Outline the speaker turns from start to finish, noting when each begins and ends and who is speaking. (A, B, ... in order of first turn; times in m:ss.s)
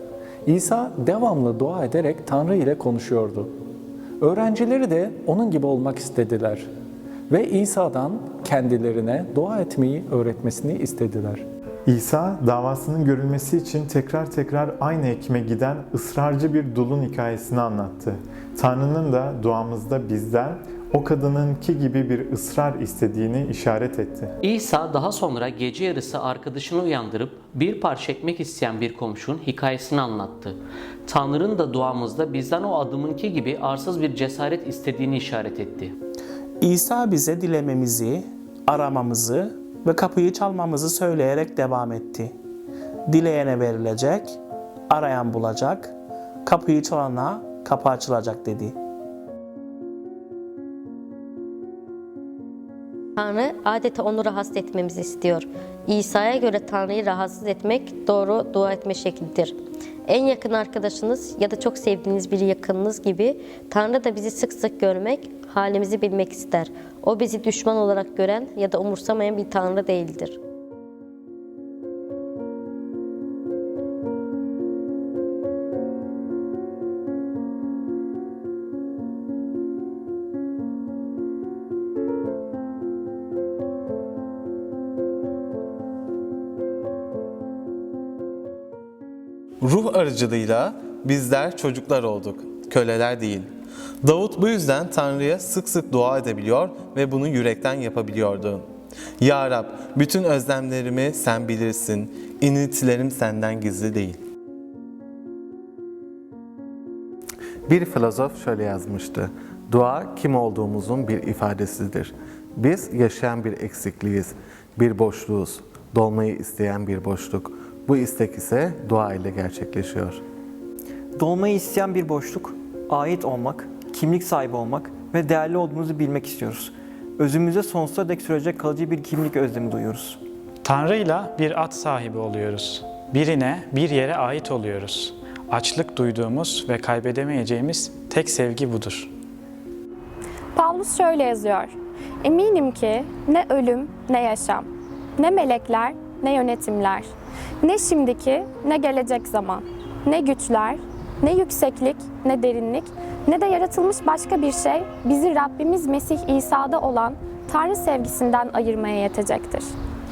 0:00.4-0:03.5 A
0:04.2-0:06.6 A
0:07.3-0:11.4 A
0:11.9-0:24.3 B
0:24.4-0:35.9 C
0:36.6-0:42.3 D
0:43.1-0:44.3 D
0:44.9-0:45.9 D
0:46.4-0:48.8 D
0:53.2-0:59.5 E
1:00.0-1:10.4 E
1:29.6-1:33.4 F
1:34.0-1:38.6 F
1:39.2-1:44.2 F
1:47.7-2:00.2 F
2:01.2-2:10.2 G
2:10.7-2:19.0 H
2:20.5-2:27.1 I
2:27.6-2:39.7 I